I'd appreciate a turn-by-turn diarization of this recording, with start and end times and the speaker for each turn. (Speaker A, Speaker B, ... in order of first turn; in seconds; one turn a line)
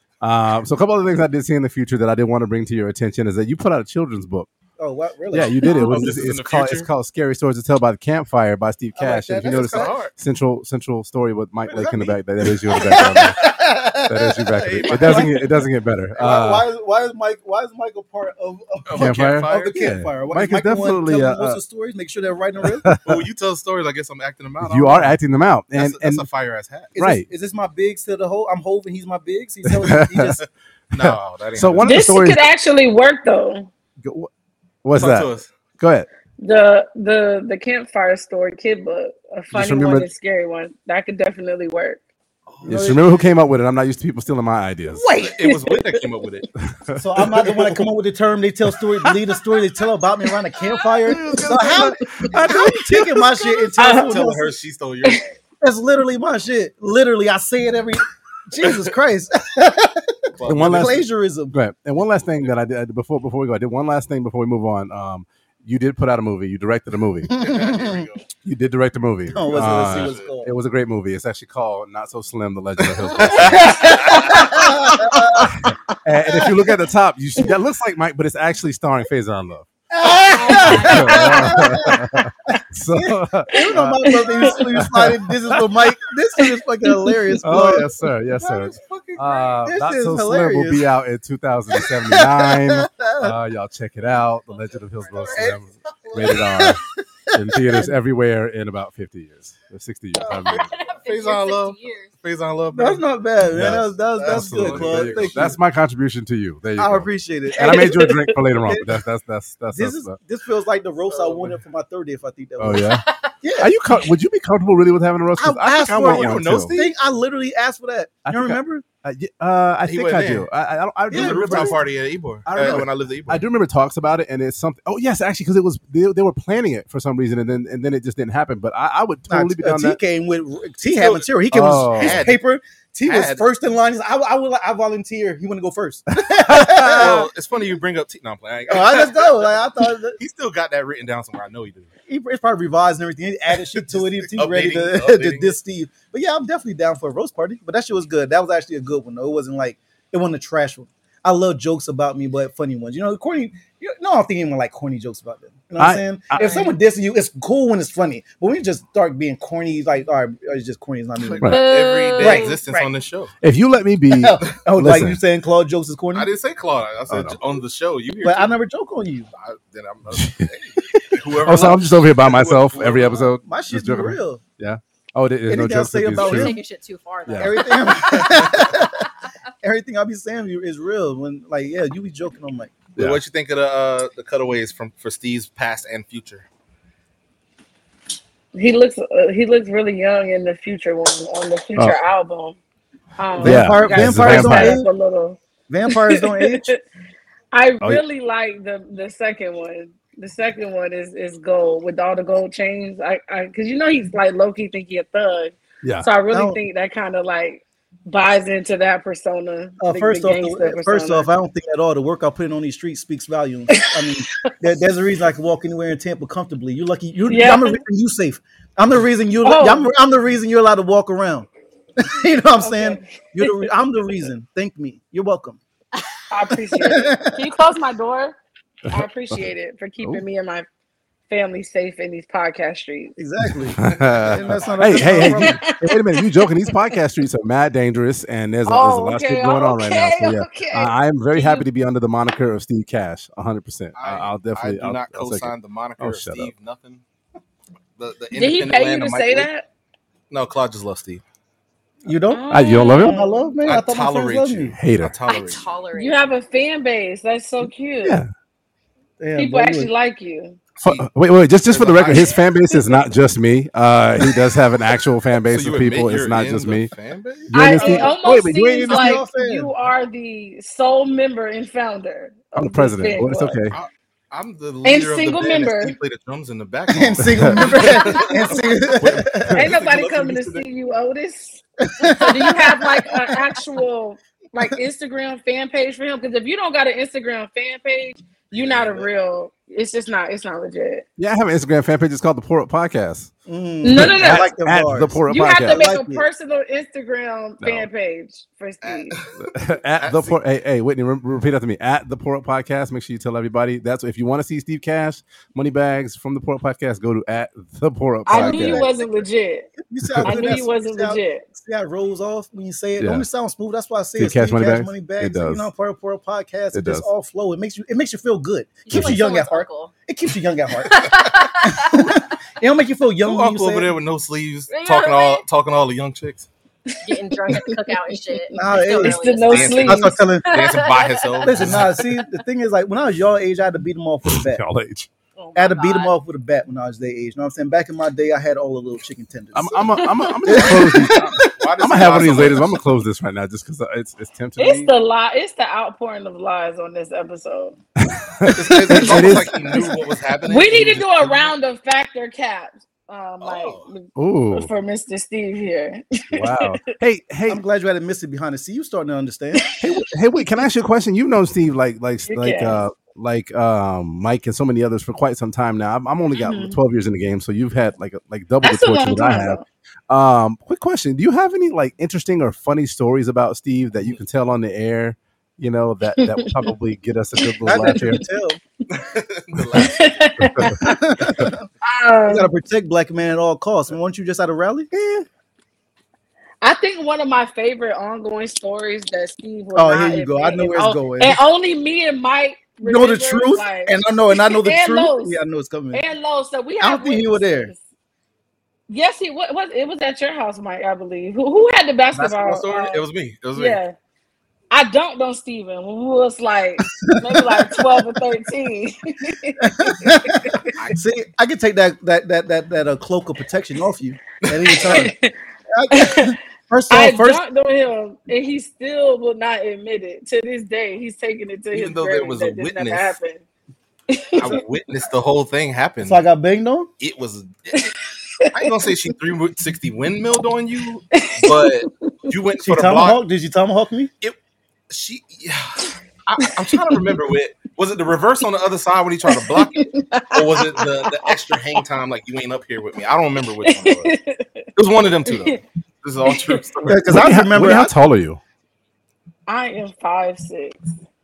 Speaker A: 0.2-4.5
Speaker B: 4.8-6.2
Speaker A: 5.3-13.5
Speaker C: 5.6-6.9
Speaker B: 9.0-10.0
Speaker C: 9.4-10.1
Speaker B: 11.7-15.6
Speaker A: 14.0-16.7
Speaker C: 14.6-15.4
Speaker B: 16.2-22.9
Speaker C: 18.9-19.8
Speaker A: 18.9-21.6
Speaker A: 22.6-23.2
Speaker C: 23.0-25.1
Speaker A: 24.6-26.2
Speaker C: 25.7-26.9
Speaker B: 26.9-30.4
Speaker A: 27.0-27.3
Speaker A: 29.6-30.4
Speaker C: 30.4-32.2
Speaker A: 31.0-32.5
Speaker D: 31.8-33.7
Speaker A: 34.0-34.3
Speaker A: 34.8-36.1
Speaker C: 34.9-35.5
Speaker D: 36.4-42.0
Speaker A: 39.5-40.1
Speaker C: 42.5-43.0
Speaker A: 42.6-45.0
Speaker B: 42.6-43.0
Speaker B: 44.9-45.5
Speaker C: 45.1-46.5
Speaker A: 46.7-47.0
Speaker B: 47.0-54.5
Speaker C: 47.3-47.7
Speaker A: 51.0-53.6
Speaker D: 53.8-54.1
Speaker C: 53.8-55.3
Speaker B: 55.6-61.5
Speaker C: 58.6-58.9
Speaker C: 60.3-61.0
Speaker A: 60.5-67.3
Speaker B: 67.3-68.0
Speaker C: 67.3-68.2
Speaker A: 68.4-74.2
Speaker B: 69.3-70.5
Speaker C: 69.4-70.3
Speaker C: 73.2-74.5
Speaker D: 73.4-74.6
Speaker B: 73.5-75.6
Speaker A: 75.4-79.7
Speaker B: 76.2-76.5
Speaker B: 79.9-87.9
Speaker E: 80.3-81.6
Speaker D: 80.5-81.7
Speaker A: 80.5-85.9
Speaker D: 83.5-84.6
Speaker D: 87.0-87.4
Speaker A: 87.4-100.7
Speaker C: 88.3-89.6
Speaker B: 89.7-90.8
Speaker B: 91.7-93.3
Speaker E: 94.5-95.2
Speaker C: 95.2-96.4
Speaker B: 96.2-96.8
Speaker B: 97.4-97.9
Speaker C: 100.4-103.0
Speaker E: 100.5-102.1
Speaker B: 102.7-105.6
Speaker A: 103.5-110.2
Speaker C: 103.6-105.5
Speaker B: 106.8-109.0
Speaker D: 107.6-108.3
Speaker B: 109.7-113.7
Speaker C: 111.1-111.6
Speaker A: 112.6-113.0
Speaker E: 113.0-113.3
Speaker A: 113.6-116.8
Speaker B: 115.4-118.8
Speaker C: 116.0-116.9
Speaker A: 118.2-121.8
Speaker C: 119.9-120.5
Speaker B: 121.1-121.8
Speaker C: 121.1-123.4
Speaker A: 122.5-130.0
Speaker B: 122.6-122.8
Speaker B: 129.3-137.3
Speaker C: 130.9-131.3
Speaker A: 131.5-132.2
Speaker C: 131.9-132.4
Speaker C: 133.0-133.4
Speaker A: 136.2-137.2
Speaker C: 136.9-139.6
Speaker B: 138.7-140.2
Speaker C: 140.2-141.9
Speaker B: 142.1-161.6
Speaker C: 143.7-145.6
Speaker A: 155.8-156.7
Speaker C: 161.2-163.3
Speaker E: 161.4-162.6
Speaker B: 162.2-162.8
Speaker A: 163.4-165.2
Speaker B: 164.1-166.3
Speaker C: 166.1-168.5
Speaker A: 167.1-167.4
Speaker B: 168.2-169.3
Speaker C: 169.3-173.3
Speaker A: 170.1-176.6
Speaker B: 173.4-174.4
Speaker B: 175.5-176.6
Speaker E: 176.1-178.3
Speaker A: 177.3-177.6
Speaker B: 177.3-179.1
Speaker B: 179.6-182.8
Speaker C: 182.9-186.4
Speaker D: 188.5-192.6
Speaker D: 193.2-196.8
Speaker B: 193.4-194.9
Speaker A: 193.4-194.8
Speaker B: 195.7-196.7
Speaker D: 197.5-211.3
Speaker B: 206.3-206.6
Speaker B: 209.8-225.6
Speaker D: 213.7-214.6
Speaker D: 217.3-217.8
Speaker D: 219.4-219.9
Speaker D: 222.6-223.7
Speaker D: 226.3-228.4
Speaker B: 226.7-227.4
Speaker A: 228.9-229.4
Speaker D: 228.9-230.7
Speaker D: 231.3-233.1
Speaker B: 233.2-235.6
Speaker A: 233.4-246.5
Speaker C: 233.8-235.1
Speaker D: 235.1-236.7
Speaker D: 238.7-241.6
Speaker C: 243.9-247.0
Speaker C: 248.0-249.5
Speaker D: 248.3-249.7
Speaker C: 250.3-251.2
Speaker B: 252.0-254.8
Speaker D: 252.3-253.5
Speaker A: 252.5-253.2
Speaker C: 253.6-255.6
Speaker A: 254.7-255.1
Speaker E: 255.3-256.3
Speaker D: 255.9-258.2
Speaker A: 258.0-258.3
Speaker B: 259.2-259.9
Speaker D: 259.3-260.6
Speaker C: 260.8-261.1
Speaker A: 260.8-266.9
Speaker C: 261.6-262.4
Speaker C: 265.4-267.7
Speaker A: 267.5-269.2
Speaker D: 267.5-273.6
Speaker B: 267.7-268.3
Speaker B: 268.8-269.7
Speaker A: 272.6-273.8
Speaker C: 273.7-280.6
Speaker D: 274.8-275.9
Speaker B: 276.9-279.6
Speaker A: 277.2-277.6
Speaker D: 277.9-278.6
Speaker D: 279.5-291.0
Speaker B: 281.9-283.1
Speaker E: 282.2-282.5
Speaker C: 288.5-289.1
Speaker A: 291.2-293.3
Speaker B: 293.5-296.3
Speaker D: 293.8-294.5
Speaker A: 293.9-295.9
Speaker D: 295.2-299.2
Speaker A: 297.6-297.9
Speaker C: 298.8-299.4
Speaker A: 299.4-308.8
Speaker C: 299.9-300.4
Speaker D: 308.2-309.7
Speaker B: 308.3-323.9
Speaker A: 310.0-310.5
Speaker D: 310.2-311.5
Speaker A: 313.0-313.2
Speaker A: 314.2-315.7
Speaker A: 316.7-317.1
Speaker E: 318.8-319.9
Speaker A: 318.9-319.2
Speaker E: 320.9-322.2
Speaker C: 323.2-326.5
Speaker E: 324.7-325.4
Speaker D: 326.9-330.2
Speaker E: 327.0-331.8
Speaker B: 328.5-329.2
Speaker C: 329.5-332.0
Speaker B: 329.8-330.9
Speaker B: 331.4-334.6
Speaker A: 334.3-335.1
Speaker E: 335.4-336.1
Speaker B: 335.5-340.7
Speaker A: 339.5-344.9
Speaker C: 340.5-342.8
Speaker D: 340.5-341.4
Speaker D: 344.6-347.8
Speaker A: 348.0-349.8
Speaker C: 348.5-351.5
Speaker D: 350.4-356.9
Speaker C: 353.4-353.9
Speaker A: 354.2-354.7
Speaker A: 356.3-357.6
Speaker B: 357.5-359.7
Speaker D: 359.6-359.9
Speaker A: 359.8-378.2
Speaker D: 362.3-362.8
Speaker D: 366.4-366.8
Speaker D: 368.6-369.6
Speaker D: 376.1-376.7
Speaker D: 377.4-378.2
Speaker B: 377.6-378.6
Speaker C: 378.9-380.3
Speaker D: 379.7-381.0
Speaker A: 380.4-381.5
Speaker B: 380.8-381.7
Speaker D: 381.8-382.5
Speaker B: 382.2-384.9
Speaker A: 384.9-385.2
Speaker D: 386.6-395.4
Speaker B: 389.7-391.4
Speaker B: 392.8-396.0
Speaker D: 395.9-397.8
Speaker B: 396.8-397.7
Speaker D: 398.9-403.9
Speaker C: 402.1-403.8
Speaker D: 404.7-410.7
Speaker B: 406.8-408.1
Speaker B: 409.6-415.1
Speaker D: 414.5-415.3
Speaker B: 415.7-417.4
Speaker D: 415.9-416.4
Speaker D: 416.9-423.4
Speaker C: 421.7-423.2
Speaker D: 424.1-424.6
Speaker C: 424.4-426.2
Speaker B: 426.0-426.9
Speaker C: 427.0-427.9
Speaker D: 427.7-428.7
Speaker C: 428.5-433.2
Speaker D: 431.1-432.3
Speaker B: 432.6-434.1
Speaker C: 434.9-444.1
Speaker D: 439.3-441.4
Speaker D: 443.6-444.7
Speaker C: 444.8-447.1
Speaker D: 445.3-445.6
Speaker D: 446.2-446.7
Speaker B: 446.9-447.9
Speaker A: 447.1-448.4
Speaker D: 449.5-450.9